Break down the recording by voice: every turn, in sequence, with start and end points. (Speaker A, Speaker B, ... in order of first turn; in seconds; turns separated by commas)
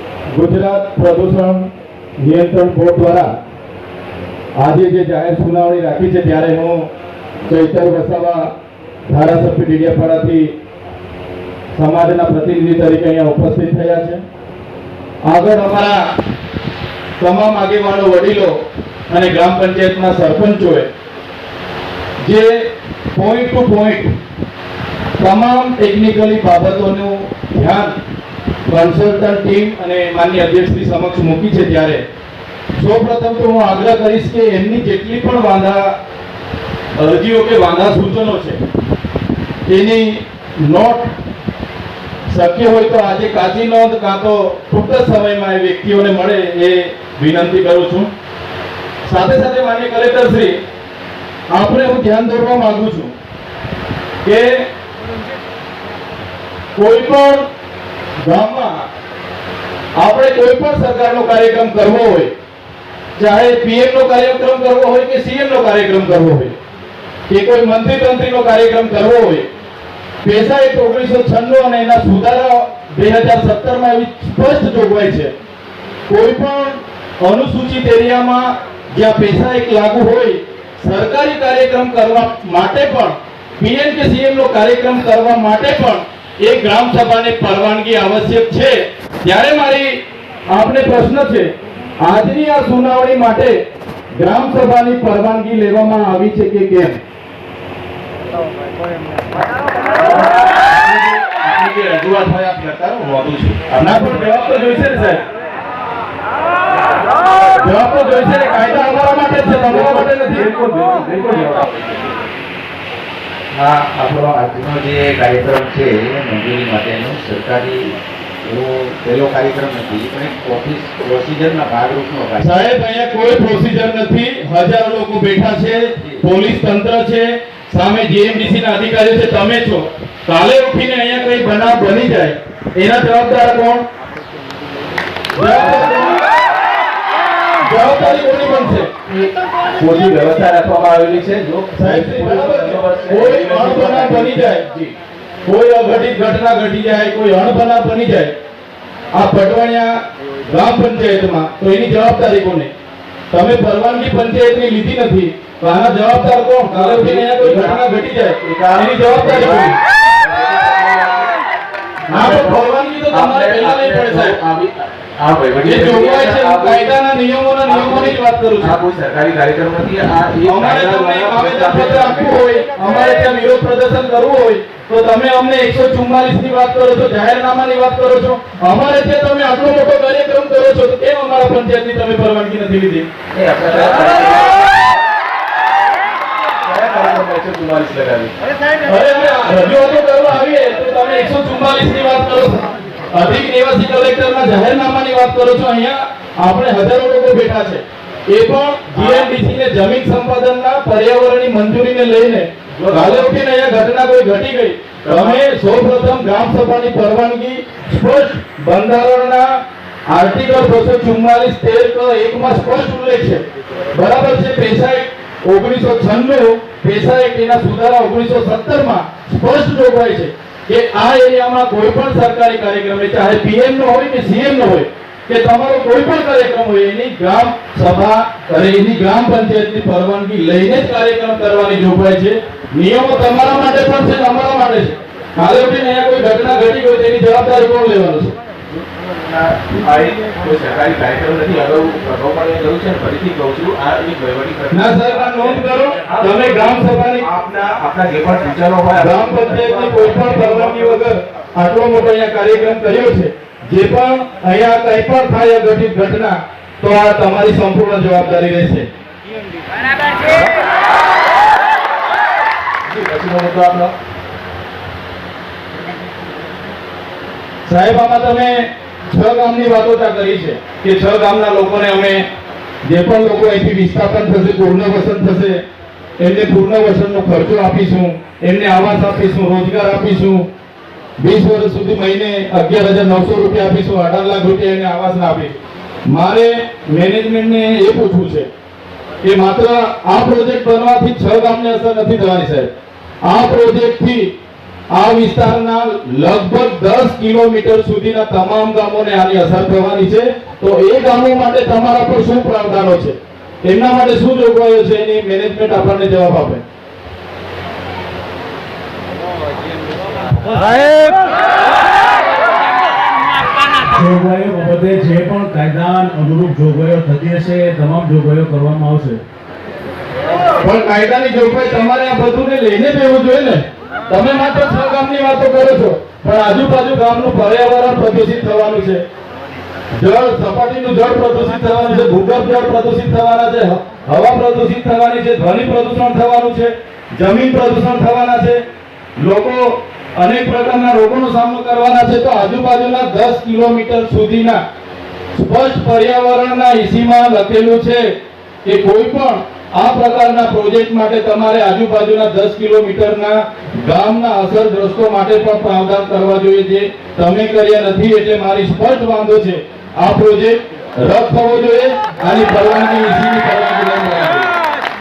Speaker A: 0.3-1.7, Speaker A: 2.2-3.2, Speaker A: 4.6-6.8, Speaker A: 7.5-8.4, Speaker A: 9.1-10.5, Speaker A: 11.7-14.2, Speaker A: 15.2-16.0, Speaker A: 17.2-18.5, Speaker A: 19.1-20.9, Speaker A: 22.2-24.1, Speaker A: 25.2-27.9, Speaker A: 28.6-32.0, Speaker A: 32.8-35.9, Speaker A: 37.0-38.6, Speaker A: 39.6-41.1, Speaker A: 42.3-48.1, Speaker A: 49.1-50.5, Speaker A: 51.5-53.1, Speaker A: 54.2-54.5, Speaker A: 56.8-57.4, Speaker A: 58.2-58.7, Speaker A: 60.0-62.3, Speaker A: 63.1-66.5, Speaker A: 67.3-69.5, Speaker A: 70.2-75.3, Speaker A: 76.1-90.0, Speaker A: 90.5-91.5, Speaker A: 92.0-93.5, Speaker A: 94.2-97.0, Speaker B: 100.7-104.2, Speaker A: 103.8-105.2, Speaker A: 107.6-111.7, Speaker B: 111.5-112.1, Speaker B: 113.5-122.7, Speaker A: 122.4-133.8, Speaker A: 135.3-136.2, Speaker A: 137.6-138.9, Speaker B: 139.1-144.9, Speaker A: 141.8-144.7, Speaker A: 145.4-148.3, Speaker A: 149.1-149.9, Speaker A: 150.5-152.7, Speaker A: 153.3-159.8, Speaker B: 156.7-157.8, Speaker B: 158.4-161.3, Speaker A: 162.1-164.4, Speaker B: 162.1-166.9, Speaker A: 165.6-168.8, Speaker B: 167.6-172.9, Speaker A: 170.4-183.1, Speaker B: 183.3-184.7, Speaker B: 186.7-188.3, Speaker A: 188.8-209.5, Speaker B: 198.9-199.3, Speaker B: 202.8-203.3, Speaker B: 205.1-205.4, Speaker A: 210.1-238.3, Speaker B: 239.2-250.6, Speaker A: 244.7-247.3, Speaker A: 248.9-258.9, Speaker B: 262.9-263.9, Speaker A: 267.7-272.2, Speaker A: 272.9-275.6, Speaker A: 276.2-280.4, Speaker A: 281.2-288.5, Speaker A: 289.2-292.7, Speaker A: 293.2-294.3, Speaker A: 294.9-306.6, Speaker C: 313.9-319.2, Speaker A: 320.6-329.0, Speaker A: 330.0-338.6, Speaker A: 339.2-344.6, Speaker A: 345.3-348.1, Speaker A: 348.6-364.5